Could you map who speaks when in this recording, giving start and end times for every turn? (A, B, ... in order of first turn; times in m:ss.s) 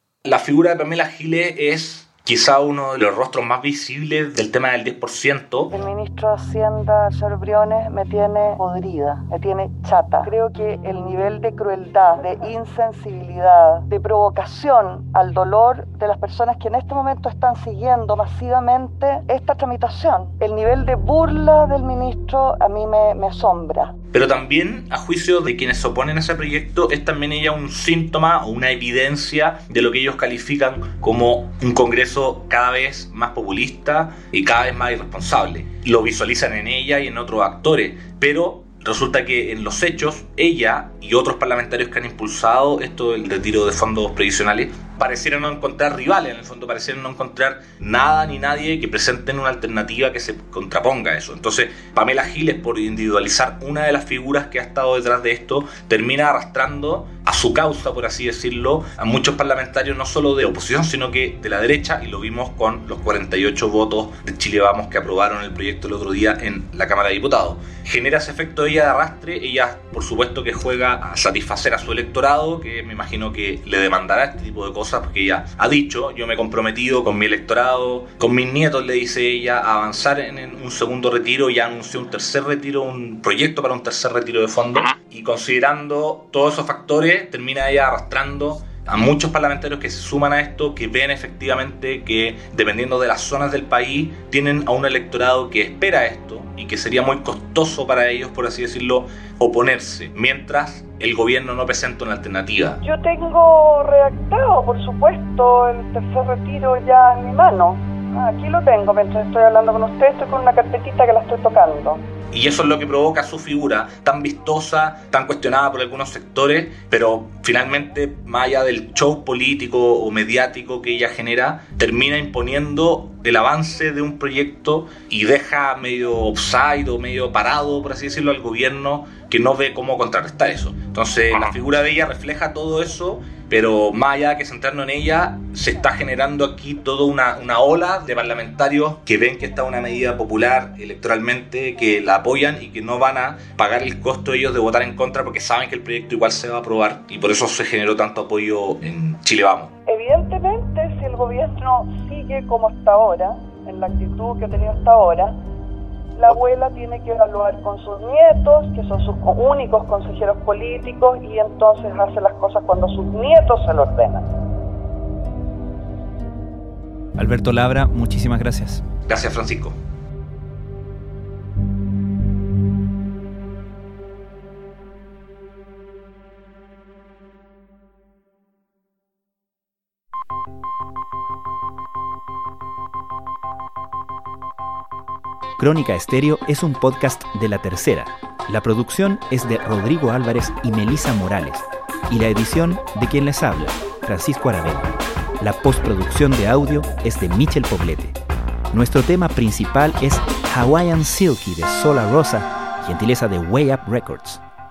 0:00.2-0:05.7 A
0:05.8-0:23.8 B
0:24.1-1:42.8 A
1:42.8-1:52.0 B
1:52.3-2:29.7 A
2:29.9-2:35.4 B
2:36.2-2:44.3 B
2:47.2-2:48.8 C
2:49.1-2:49.8 A
3:05.6-3:18.2 C
3:18.7-3:24.4 C